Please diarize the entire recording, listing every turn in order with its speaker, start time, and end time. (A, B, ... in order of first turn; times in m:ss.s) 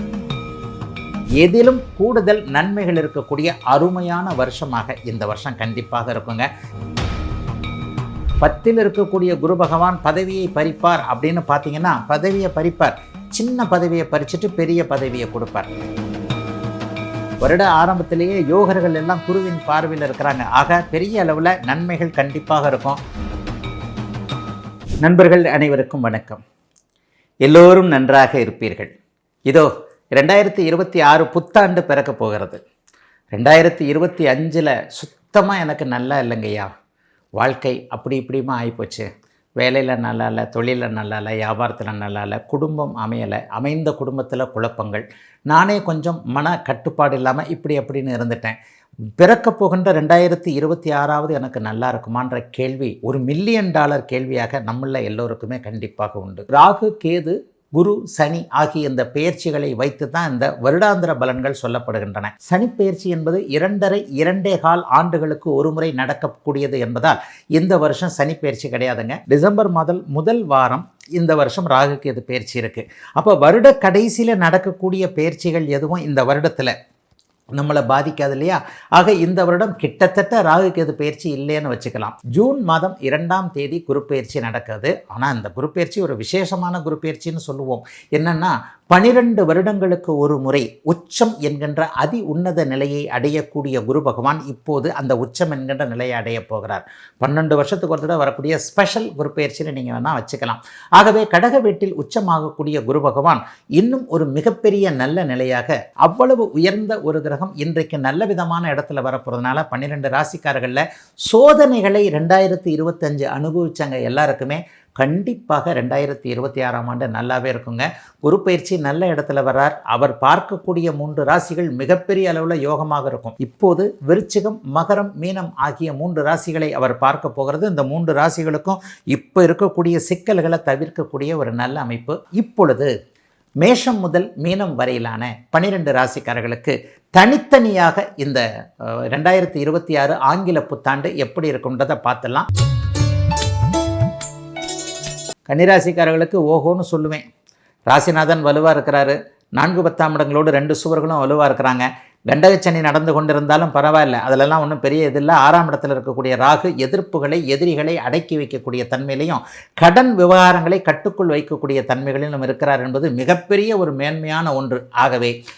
0:01.4-0:06.5 A
0:08.4-0:15.7 A
0:17.4-0:23.0 A
0:25.0-0:26.4 A
0:27.4-0:28.9 A
0:29.5-0:32.6 A
0:33.3-0:36.7 A
0:37.4-0:39.1 A
0:39.6-0:48.6 A
0:49.2-1:16.8 A
1:17.5-2:12.9 A
2:13.6-2:18.4 A
2:19.1-2:22.5 A
2:25.5-2:27.3 A
2:27.9-2:45.4 A